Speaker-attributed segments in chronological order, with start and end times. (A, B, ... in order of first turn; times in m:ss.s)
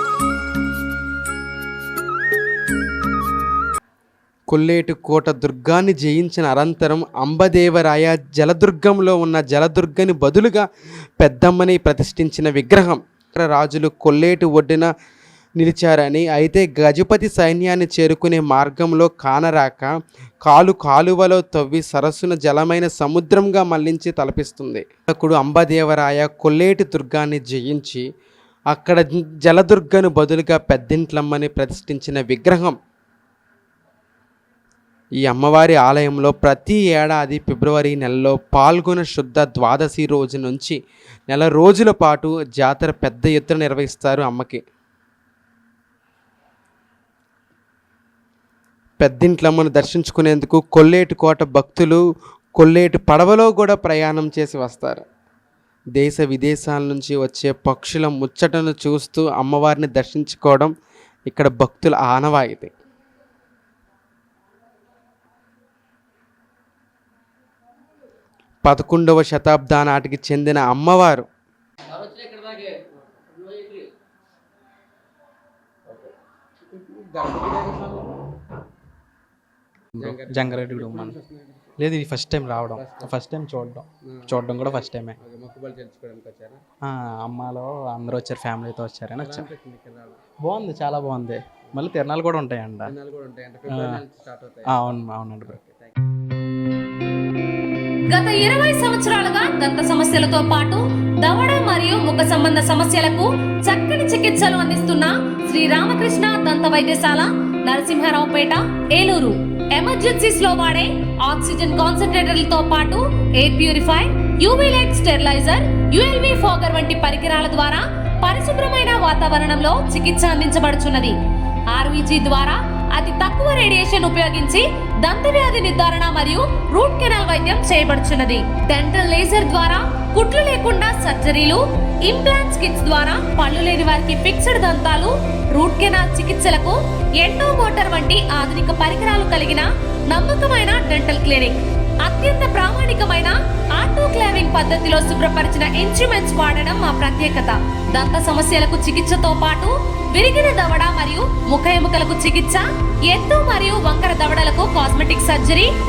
0:04.5-0:10.6 A
0:11.2-0:14.9 A
0:15.6-0:19.9 A
0:20.4-0:28.0 A
0:28.7-0:32.8 A
0:35.2-0:40.8 A
0:41.3-0:44.6 A
0:49.0-0:52.0 A
0:52.6-0:55.0 A
0:56.0-1:00.7 A
1:01.3-1:02.7 A
1:08.6-1:11.3 A
1:16.7-1:18.1 A
1:20.0-1:21.2 B
1:20.3-1:21.6 A
1:21.8-1:25.2 B
1:25.3-1:26.6 A
1:26.9-1:29.5 B
1:29.7-1:30.2 A
1:30.4-1:33.0 B
1:33.0-1:34.5 A
1:33.7-1:34.0 B
1:34.7-1:35.6 B
1:38.1-2:01.2 C
2:01.7-2:35.7 C